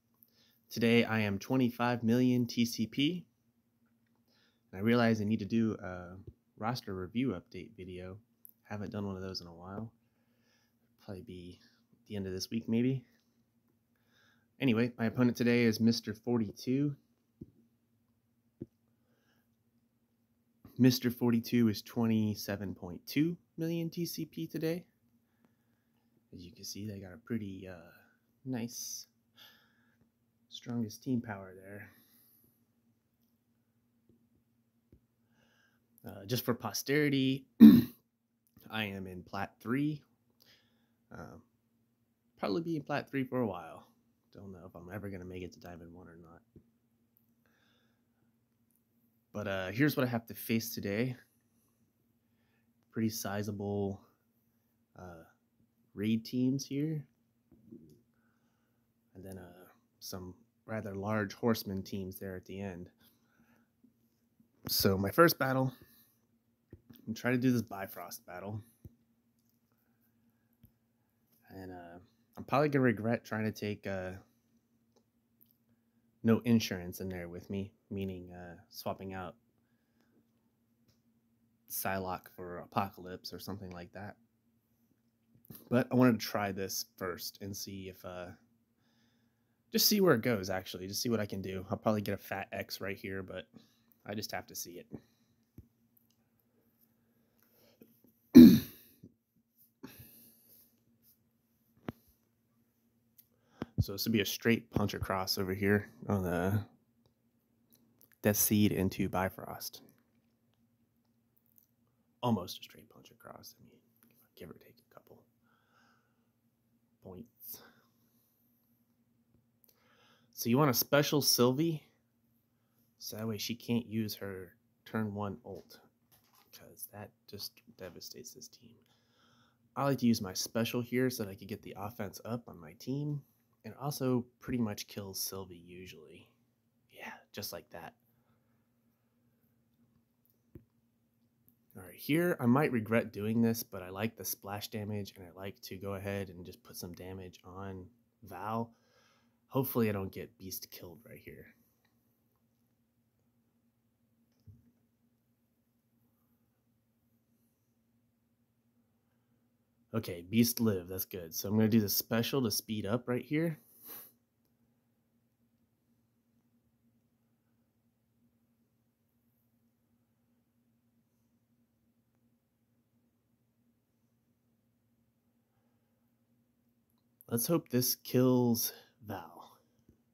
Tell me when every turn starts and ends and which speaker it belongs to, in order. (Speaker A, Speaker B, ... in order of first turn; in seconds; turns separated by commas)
Speaker A: 0.7-3.3, Speaker A: 4.7-9.9, Speaker A: 11.0-13.1, Speaker A: 14.6-17.0, Speaker A: 20.8-24.9, Speaker A: 26.3-29.1, Speaker A: 30.5-31.9, Speaker A: 36.0-38.0, Speaker A: 38.7-40.0, Speaker A: 41.1-41.4, Speaker A: 42.4-46.4, Speaker A: 49.3-51.2, Speaker A: 52.9-54.0, Speaker A: 55.0-55.3, Speaker A: 55.9-57.1, Speaker A: 59.1-62.9, Speaker A: 64.7-65.8, Speaker A: 67.1-68.6, Speaker A: 71.5-74.2, Speaker A: 76.2-79.4, Speaker A: 81.7-84.2, Speaker A: 85.7-88.4, Speaker A: 89.7-93.5, Speaker A: 94.0-94.9, Speaker A: 98.3-98.6, Speaker A: 103.8-106.7, Speaker A: 108.2-109.8, Speaker A: 112.2-115.3, Speaker A: 117.0-117.6, Speaker A: 120.3-121.9, Speaker A: 123.0-125.8, Speaker A: 126.5-128.8, Speaker A: 129.8-136.3, Speaker A: 136.9-138.0, Speaker A: 141.8-148.8, Speaker A: 149.5-151.5, Speaker A: 159.9-163.6, Speaker A: 177.3-179.6